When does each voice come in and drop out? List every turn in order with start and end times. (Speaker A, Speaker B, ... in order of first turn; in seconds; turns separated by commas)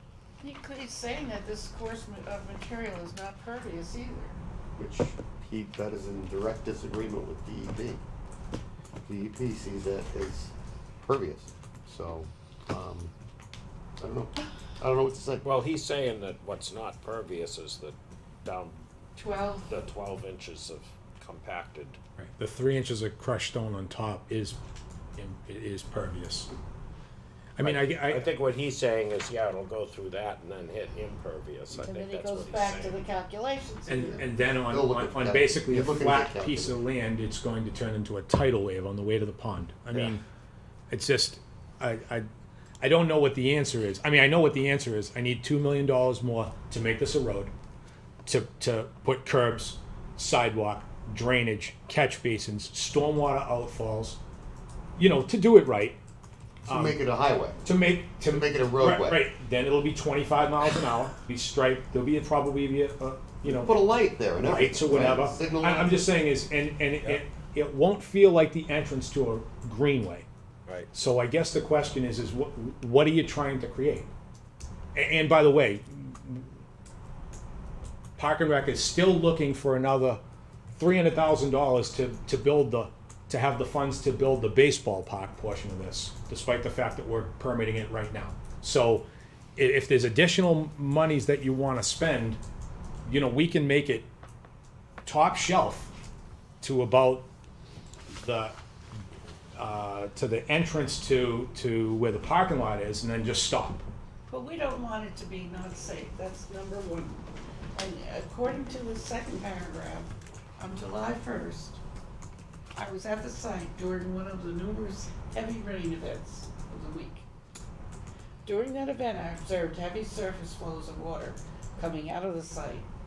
Speaker A: 0.4-4.4, Speaker B: 4.8-8.0, Speaker B: 9.0-10.5, Speaker B: 11.0-13.1, Speaker B: 14.0-15.4, Speaker C: 15.4-18.8, Speaker A: 19.1-19.8, Speaker C: 19.6-22.0, Speaker D: 22.2-24.6, Speaker D: 25.1-26.5, Speaker D: 27.6-28.3, Speaker C: 27.6-33.1, Speaker A: 31.7-34.2, Speaker D: 33.9-40.2, Speaker B: 34.0-36.8, Speaker D: 40.9-42.2, Speaker D: 42.8-47.5, Speaker D: 48.2-54.2, Speaker D: 55.0-56.0, Speaker D: 56.6-57.0, Speaker B: 56.6-57.6, Speaker D: 57.6-63.8, Speaker B: 58.3-59.3, Speaker B: 63.4-66.0, Speaker D: 64.4-70.3, Speaker D: 70.9-74.1, Speaker D: 74.9-76.5, Speaker D: 78.2-89.0, Speaker D: 89.5-92.4, Speaker D: 93.0-94.1, Speaker D: 95.0-95.9, Speaker D: 96.6-97.3, Speaker D: 98.1-98.5, Speaker D: 99.6-103.8, Speaker A: 104.3-107.2, Speaker A: 107.7-111.8, Speaker A: 112.7-117.2, Speaker A: 118.4-122.9